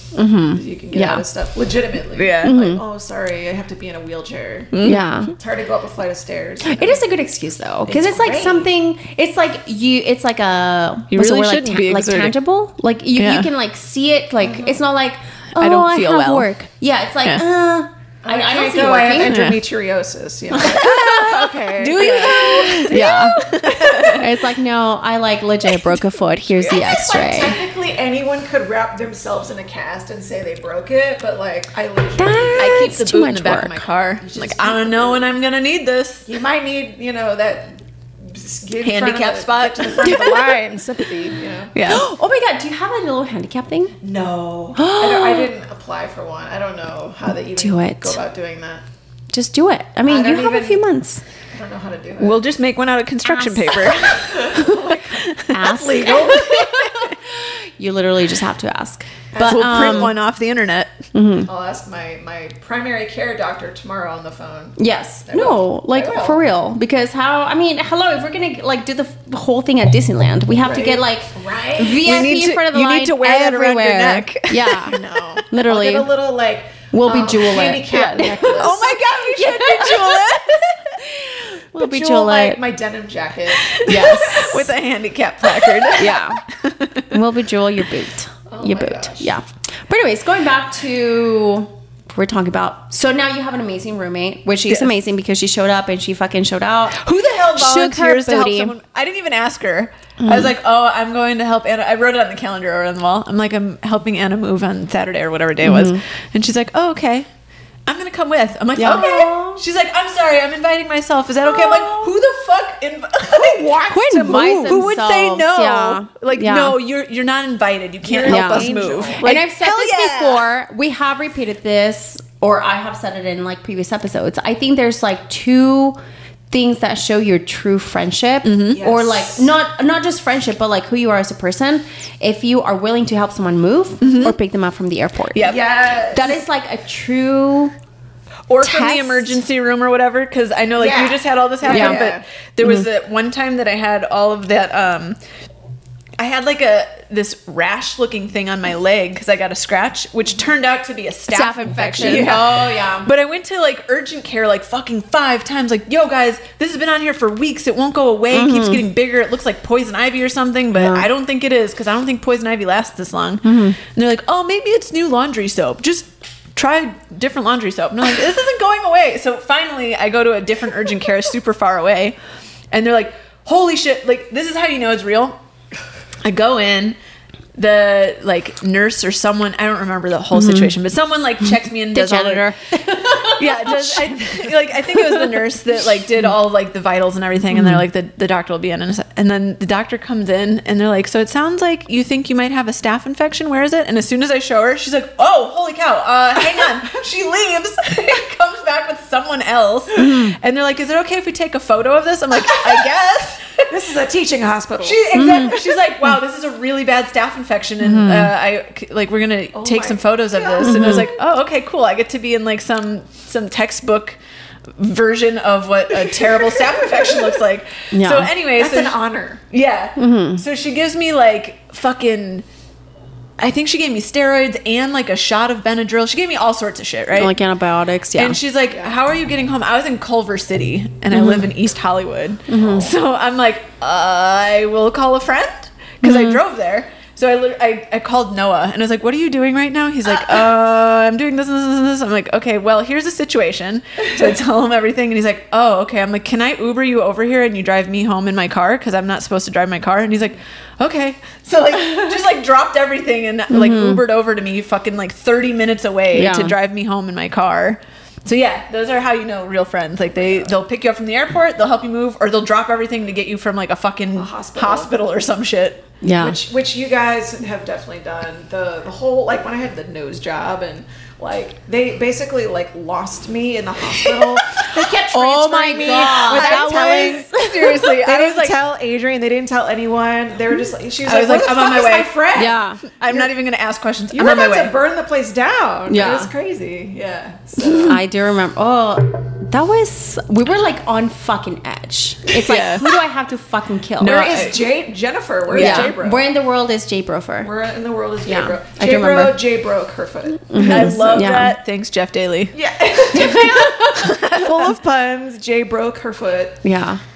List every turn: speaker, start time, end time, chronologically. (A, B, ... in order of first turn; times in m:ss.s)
0:00.1-0:01.2 A
0:00.5-0:04.7 B
0:02.2-0:02.5 C
0:02.4-0:02.8 A
0:04.7-0:05.1 C
0:04.8-0:05.3 A
0:05.3-0:07.0 B
0:06.6-0:19.3 A
0:07.9-0:08.7 B
0:11.1-0:12.4 C
0:13.2-0:13.5 C
0:14.4-0:14.8 B
0:15.6-0:16.5 C
0:18.2-0:24.2 B
0:19.2-0:19.6 C
0:20.6-0:27.6 A
0:20.6-0:24.3 C
0:26.7-0:33.0 B
0:32.2-0:33.9 A
0:32.6-0:36.3 C
0:34.2-0:35.4 B
0:36.3-0:41.7 B
0:38.8-0:40.6 C
0:41.7-0:42.1 C
0:41.8-0:44.0 A
0:44.0-0:48.8 B
0:44.8-0:45.5 A
0:47.6-0:48.2 A
0:49.3-0:51.2 A
0:50.1-0:50.8 B
0:51.5-0:52.4 B
0:52.2-0:56.4 C
0:53.2-0:54.8 A
0:54.2-0:56.9 B
0:55.5-1:00.1 A
0:59.3-1:00.2 B
0:59.4-1:00.9 C
1:01.1-1:01.5 A
1:01.5-1:06.4 B
1:04.8-1:15.0 A
1:10.6-1:12.2 B
1:11.9-1:15.1 C
1:14.9-1:19.0 B
1:15.5-1:16.1 A
1:16.9-1:20.2 A
1:18.5-1:21.2 C
1:19.5-1:20.2 B
1:21.4-1:22.6 A
1:21.8-1:24.4 B
1:23.7-1:27.2 C
1:23.8-1:24.7 A
1:26.0-1:26.4 A
1:27.1-1:38.8 A
1:28.5-1:29.3 B
1:37.0-1:47.3 C
1:40.2-1:40.5 A
1:45.6-1:46.0 A
1:47.9-2:00.4 C
1:48.8-1:49.6 A
1:48.9-1:49.2 B
1:51.5-1:52.1 B
1:53.3-1:54.9 B
1:53.9-1:56.8 A
1:58.0-1:59.2 B
1:58.2-2:06.0 A
2:06.5-2:15.6 A
2:08.4-2:08.8 C
2:08.7-2:09.4 B
2:14.0-2:14.4 C
2:15.3-2:16.3 C
2:15.4-2:16.4 B
2:16.1-2:17.7 A
2:18.5-2:25.2 C
2:18.6-2:19.4 A
2:20.8-2:22.2 B
2:21.7-2:22.0 A
2:26.2-2:52.2 C
2:31.3-2:33.1 A
2:38.3-2:38.8 A
2:40.7-2:41.1 A
2:43.4-2:43.8 A
2:52.7-2:55.4 C
2:56.2-2:57.0 C
2:57.6-3:02.5 C
3:00.3-3:00.7 A
3:01.9-3:05.2 A
3:03.0-3:23.7 C
3:07.5-3:07.8 A
3:19.9-3:20.4 A
3:22.5-3:22.8 B
3:23.7-3:25.6 B
3:24.8-3:34.2 C
3:25.1-3:25.6 A
3:27.8-3:28.3 A
3:29.5-3:31.0 B
3:30.6-3:31.1 A
3:34.8-3:39.0 C
3:35.9-3:37.4 B
3:37.9-3:38.3 A
3:38.6-3:39.4 B
3:39.5-3:42.4 C
3:40.0-3:40.4 A
3:43.4-3:47.3 C
3:47.2-3:48.4 A
3:48.2-4:25.9 C
3:48.7-3:49.0 B
3:51.1-3:51.5 A
3:52.5-3:52.9 A
3:52.6-3:52.9 B
3:56.0-3:56.4 A
4:13.5-4:14.0 A
4:16.1-4:16.5 A
4:24.2-4:24.9 B
4:26.0-4:26.4 A
4:26.2-4:43.3 B
4:34.0-4:38.6 C
4:35.1-4:37.8 A
4:41.0-4:42.2 C
4:42.4-4:42.8 A
4:43.0-4:44.7 C
4:44.1-4:48.0 B
4:45.9-4:46.3 A
4:47.7-4:48.0 C
4:47.8-4:54.5 A
4:52.4-4:52.9 C
4:54.0-4:54.6 C
4:54.0-4:56.2 B
4:55.5-4:55.9 C
4:55.5-4:57.5 A
4:57.4-5:01.3 B
4:58.3-4:59.4 A
5:00.5-5:01.6 A
5:00.6-5:04.7 C
5:02.5-5:06.6 B
5:03.3-5:04.0 A
5:06.6-5:07.0 A